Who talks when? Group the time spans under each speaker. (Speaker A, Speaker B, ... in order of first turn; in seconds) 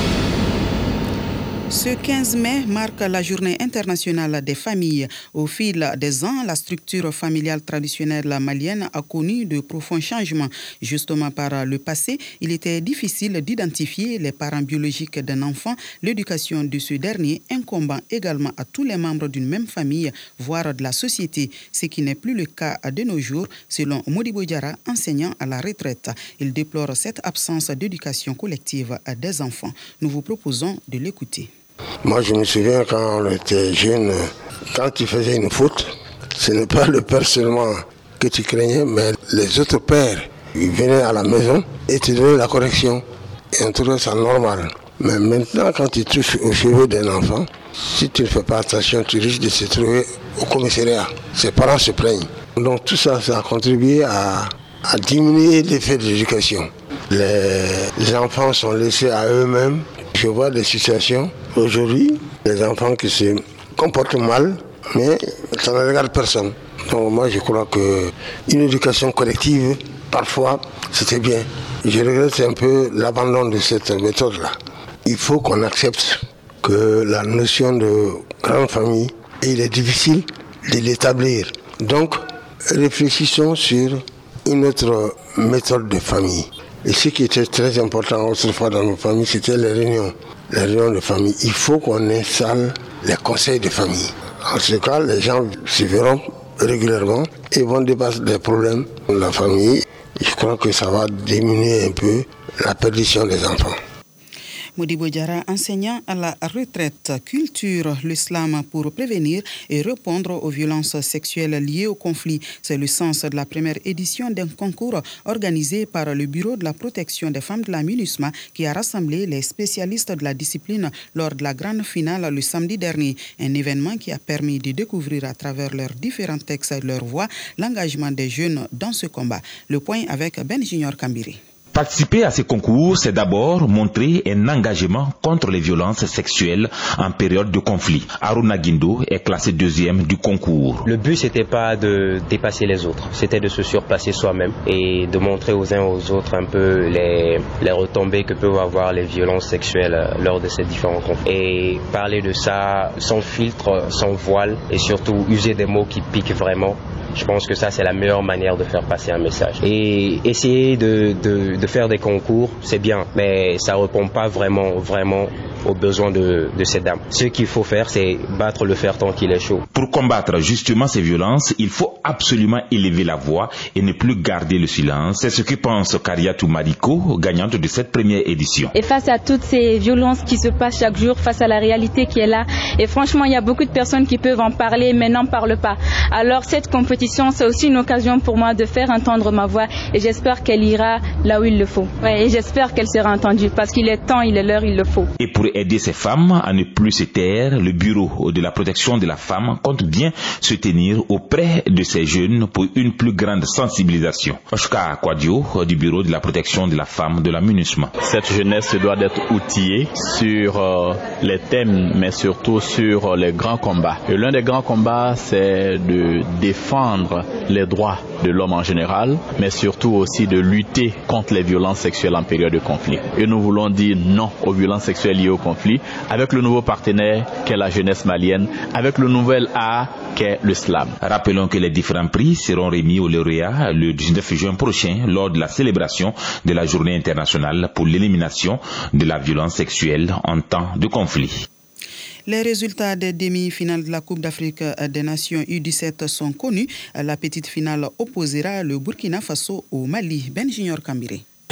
Speaker A: 1.7-31.5, 104.8-131.4, 242.3-251.2
Speaker B: 32.0-103.8
Speaker C: 131.7-140.8, 169.7-178.7, 195.2-207.9, 231.0-241.4
Speaker D: 140.8-169.7
Speaker E: 178.8-195.1
Speaker F: 208.0-231.0